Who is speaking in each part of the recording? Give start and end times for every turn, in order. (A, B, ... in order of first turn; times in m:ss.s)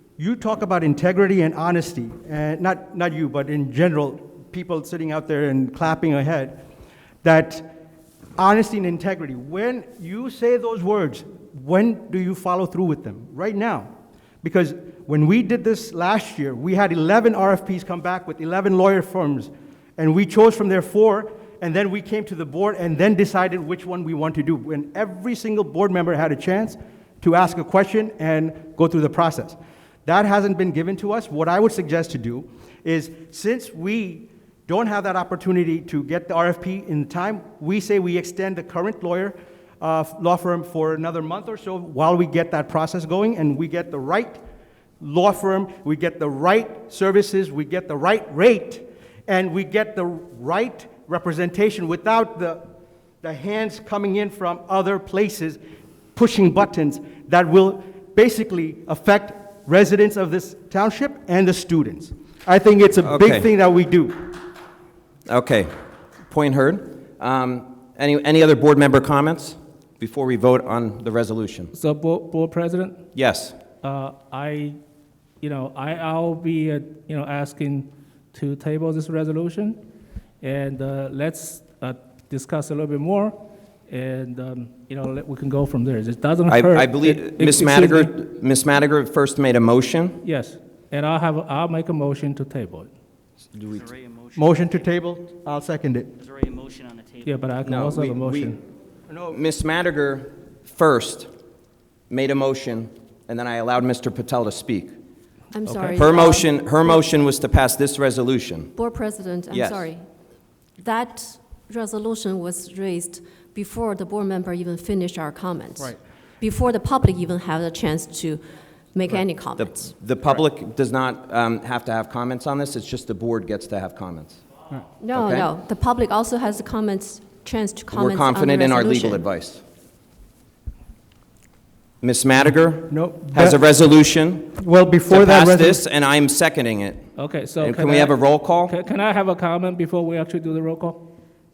0:00.2-0:06.6 A
0:07.2-0:07.6 A
0:08.4-0:13.9 A
0:14.4-0:44.4 A
0:45.0-0:52.6 A
0:53.2-0:55.6 A
0:56.1-1:04.3 A
1:03.0-1:03.5 B
1:05.3-1:05.7 B
1:06.3-1:11.7 B
1:11.7-1:13.0 C
1:13.1-1:13.6 B
1:13.8-1:14.8 C
1:15.4-1:19.8 C
1:20.4-1:23.4 C
1:23.9-1:28.1 C
1:26.5-1:30.2 B
1:30.2-1:32.9 C
1:33.5-1:33.9 B
1:33.7-1:34.8 D
1:34.3-1:36.1 A
1:36.2-1:37.3 D
1:37.2-1:38.6 C
1:37.6-1:38.6 B
1:39.1-1:39.4 A
1:39.3-1:41.3 B
1:42.1-1:44.9 B
1:45.5-1:47.0 E
1:45.7-1:46.0 C
1:45.9-1:48.7 B
1:48.7-1:50.0 E
1:49.5-1:49.9 B
1:50.8-1:58.4 E
1:58.9-1:59.9 E
1:59.6-2:04.4 B
2:05.0-2:09.2 E
2:05.1-2:05.5 B
2:07.9-2:09.6 B
2:12.0-2:14.5 B
2:12.9-2:13.6 A
2:14.5-2:15.8 A
2:15.1-2:17.0 B
2:17.2-2:21.0 C
2:17.6-2:18.7 B